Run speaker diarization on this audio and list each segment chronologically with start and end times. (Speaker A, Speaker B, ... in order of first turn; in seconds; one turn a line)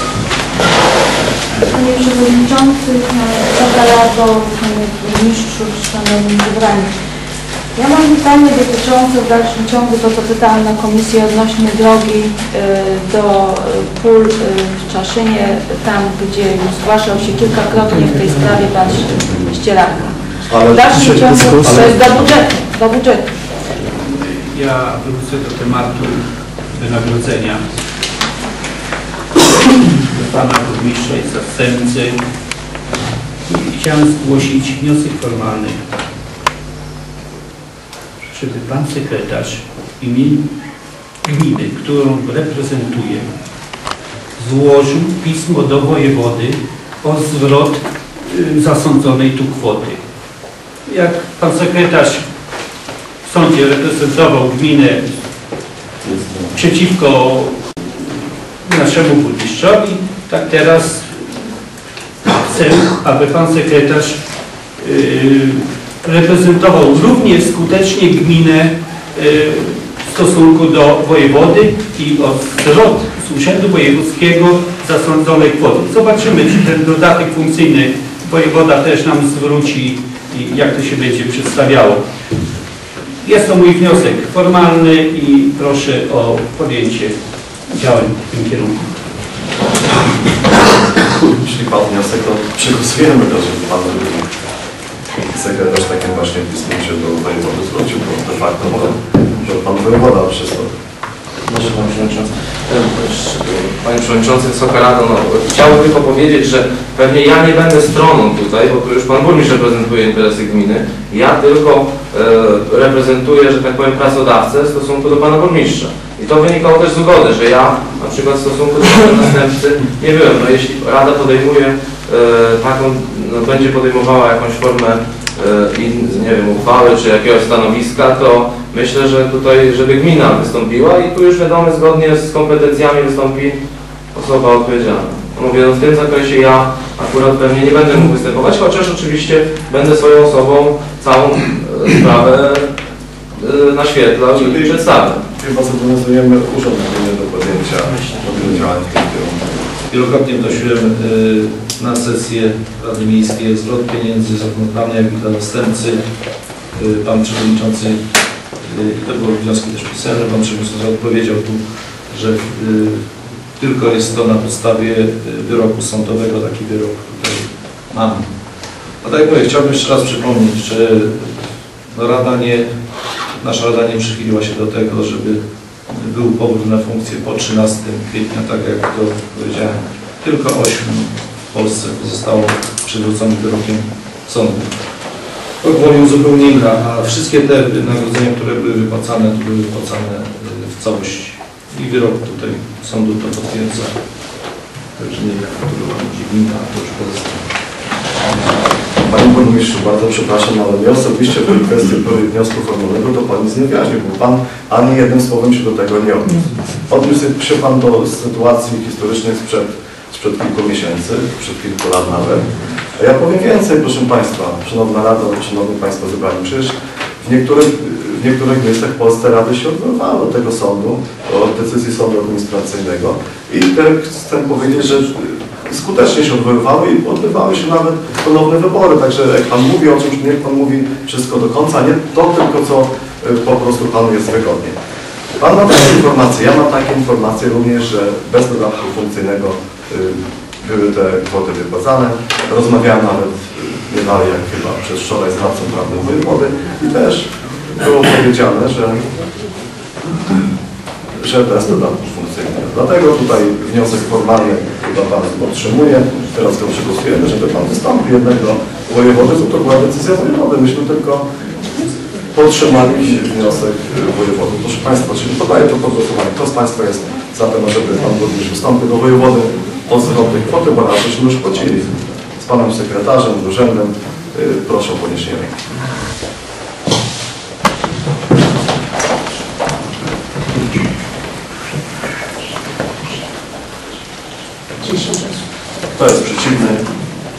Speaker A: 1.6-6.9
Speaker A: 7.8-23.3
Speaker B: 20.5-22.2
Speaker C: 23.9-27.6
Speaker C: 30.0-32.2
Speaker C: 33.5-35.8
Speaker C: 38.3-40.5
Speaker C: 41.3-43.3
Speaker C: 44.4-50.0
Speaker C: 50.9-52.2
Speaker C: 53.2-55.0
Speaker B: 56.0-56.5
Speaker C: 56.5-58.1
Speaker C: 58.6-61.2
Speaker C: 62.3-64.2
Speaker C: 64.8-82.0
Speaker C: 83.2-87.2
Speaker C: 87.7-88.9
Speaker B: 91.3-94.3
Speaker B: 95.2-100.7
Speaker D: 101.5-133.6
Speaker D: 134.1-142.7
Speaker D: 143.3-145.2
Speaker B: 144.3-149.7
Speaker E: 149.9-156.0
Speaker E: 156.8-158.0
Speaker E: 158.6-163.0
Speaker E: 163.6-168.3
Speaker E: 169.0-171.3
Speaker E: 171.9-172.7
Speaker E: 173.4-184.7
Speaker E: 185.6-193.9
Speaker E: 195.0-197.4
Speaker B: 199.0-234.8
Speaker B: 235.4-249.1
Speaker B: 251.2-261.2
Speaker B: 262.3-275.5
Speaker E: 286.0-286.7